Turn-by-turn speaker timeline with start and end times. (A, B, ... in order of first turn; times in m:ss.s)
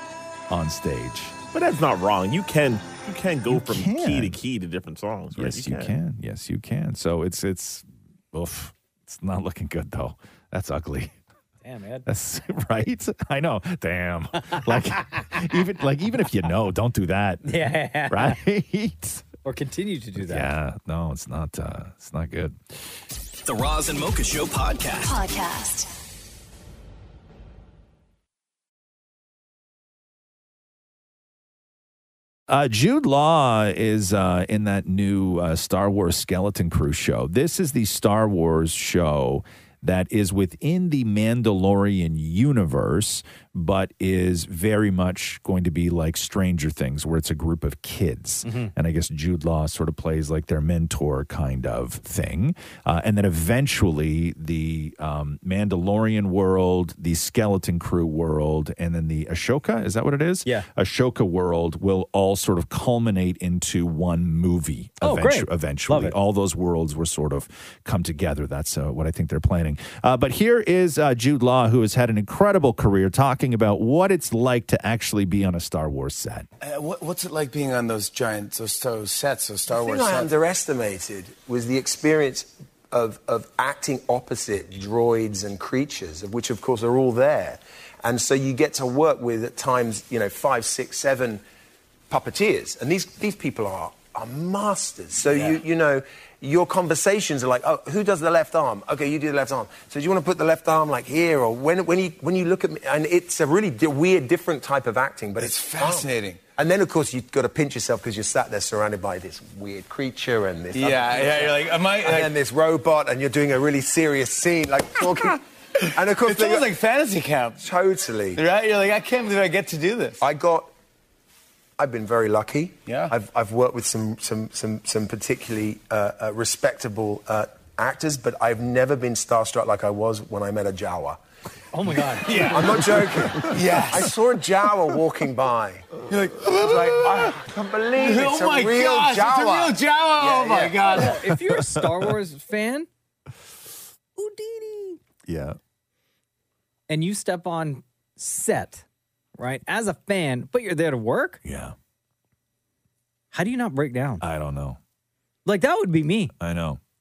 0:00.5-0:01.4 A
0:01.5-0:06.0 B
0:03.5-0:04.4 A
0:05.3-0:11.1 A
0:11.6-0:12.1 C
0:12.0-0:17.4 A
0:17.4-0:18.4 C
0:18.1-0:19.2 A
0:19.4-0:20.5 C
0:20.2-0:22.6 A
0:23.4-0:25.9 D
0:32.5-1:16.5 A
0:48.4-0:48.7 C
1:05.0-1:06.1 C
1:16.6-1:20.3 E
1:19.7-1:31.4 F
1:32.1-1:55.4 F
1:45.4-1:46.4 E
1:50.7-1:52.3 E
1:55.9-1:56.8 F
1:56.2-1:57.6 E
1:57.6-1:58.4 F
1:58.4-2:00.2 E
2:00.2-2:00.7 F
2:01.8-2:11.2 F
2:11.7-2:12.8 C
2:12.3-2:12.6 E
2:12.4-2:15.9 F
2:13.4-2:14.0 E
2:16.1-2:17.4 E
2:16.4-2:21.1 F
2:17.9-2:21.1 E
2:20.9-2:22.9 C
2:21.5-2:21.8 A
2:24.2-2:25.0 C
2:25.3-2:25.6 A
2:26.9-2:28.8 C
2:29.4-2:31.4 C
2:31.4-2:31.7 A
2:33.3-2:34.2 C
2:34.2-2:34.8 A
2:35.4-2:36.3 C
2:36.4-2:36.8 A